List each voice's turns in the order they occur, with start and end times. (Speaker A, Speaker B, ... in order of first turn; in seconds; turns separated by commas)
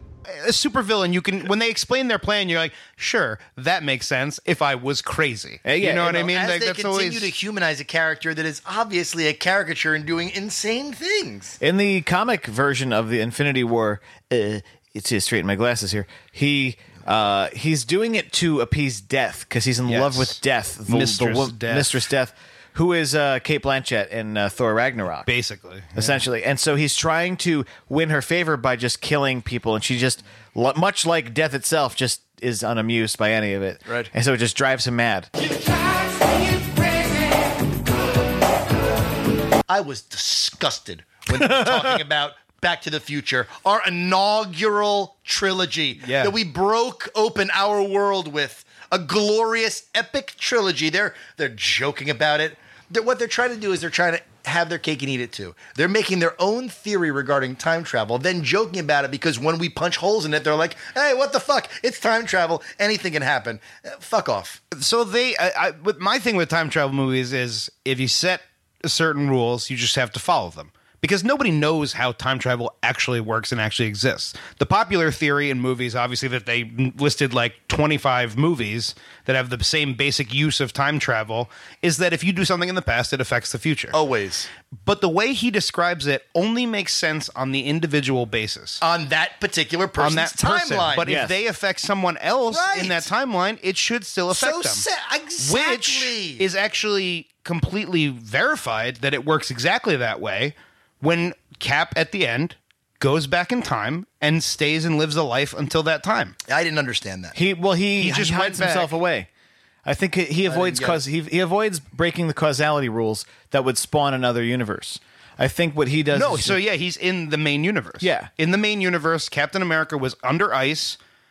Speaker A: 0.3-7.3, Speaker B: 5.7-6.1, Speaker C: 5.9-11.6, Speaker B: 11.6-25.3, Speaker A: 19.9-20.4, Speaker A: 20.9-22.0, Speaker A: 25.3-26.2, Speaker B: 25.9-35.3, Speaker C: 39.7-64.6, Speaker B: 41.3-41.9, Speaker A: 46.0-46.3, Speaker A: 64.7-84.0, Speaker C: 83.9-84.5, Speaker A: 84.8-88.8, Speaker C: 88.8-91.1, Speaker A: 90.0-94.9, Speaker B: 91.0-91.4, Speaker C: 92.5-93.1, Speaker C: 94.3-96.5, Speaker A: 95.4-106.4, Speaker C: 106.5-107.4, Speaker B: 107.3-109.3, Speaker A: 108.0-108.9, Speaker B: 109.8-116.6, Speaker C: 110.5-111.0, Speaker A: 116.1-121.0, Speaker B: 118.0-118.3